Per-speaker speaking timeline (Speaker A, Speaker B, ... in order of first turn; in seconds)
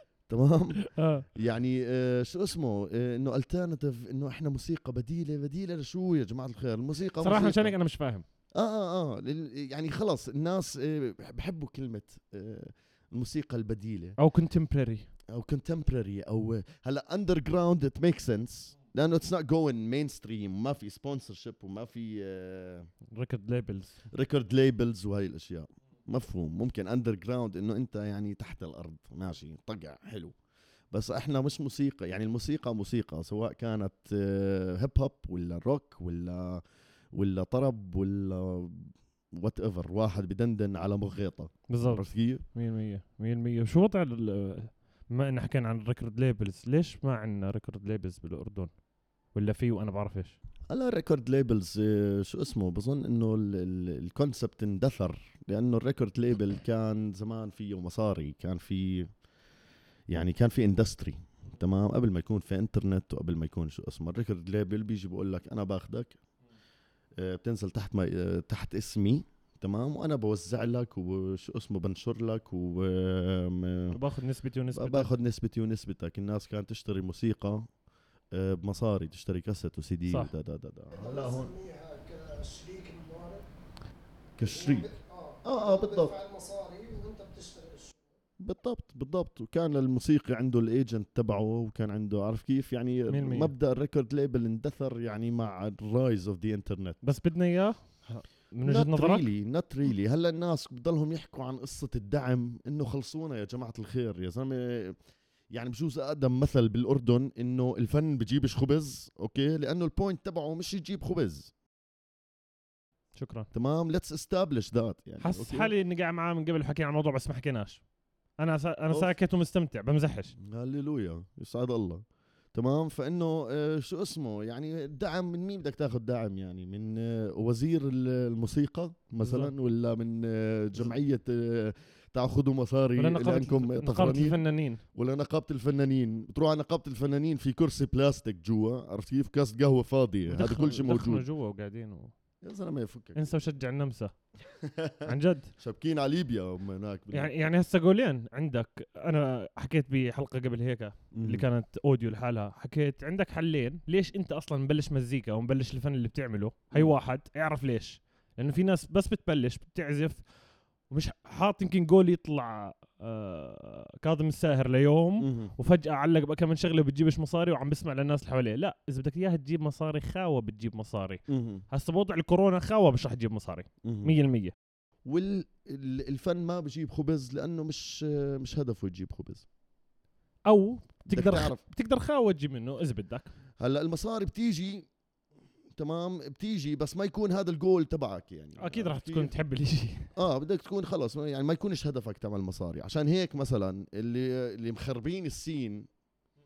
Speaker A: 0.3-7.7, 8.5-14.2, 15.3-22.9, 24.1-30.3, 30.9-36.6, 37.1-42.4, 50.7-59.1, 60.1-66.2, 67.2-74.0, 74.7-77.7, 78.3-81.5, 84.4-84.9, 85.4-86.1, 88.4-97.0, 98.6-105.0, 105.5-111.5, 113.5-115.7, 120.4-122.0, 122.5-134.4, 134.9-141.2, 142.4-143.4, 144.6-147.3, 151.1-151.5, 165.2-165.5, 171.3-171.6, 173.8-174.1, 175.1-179.4, 181.1-181.6, 183.6-184.9, 185.7-189.3, 190.1-195.9
Speaker B: 0.9-1.3, 7.2-8.2, 14.2-15.1, 23.1-24.0, 41.7-48.8, 49.3-50.4, 73.9-75.1, 93.1-93.5, 97.0-99.3, 113.1-113.5, 115.2-117.8, 118.4-120.3, 129.2-129.5, 133.0-134.8, 140.3-142.1, 143.2-144.1, 145.1-145.5, 147.1-160.3, 160.9-174.5, 180.4-183.3, 188.6-190.1
Speaker C: 80.9-83.4, 84.4-88.0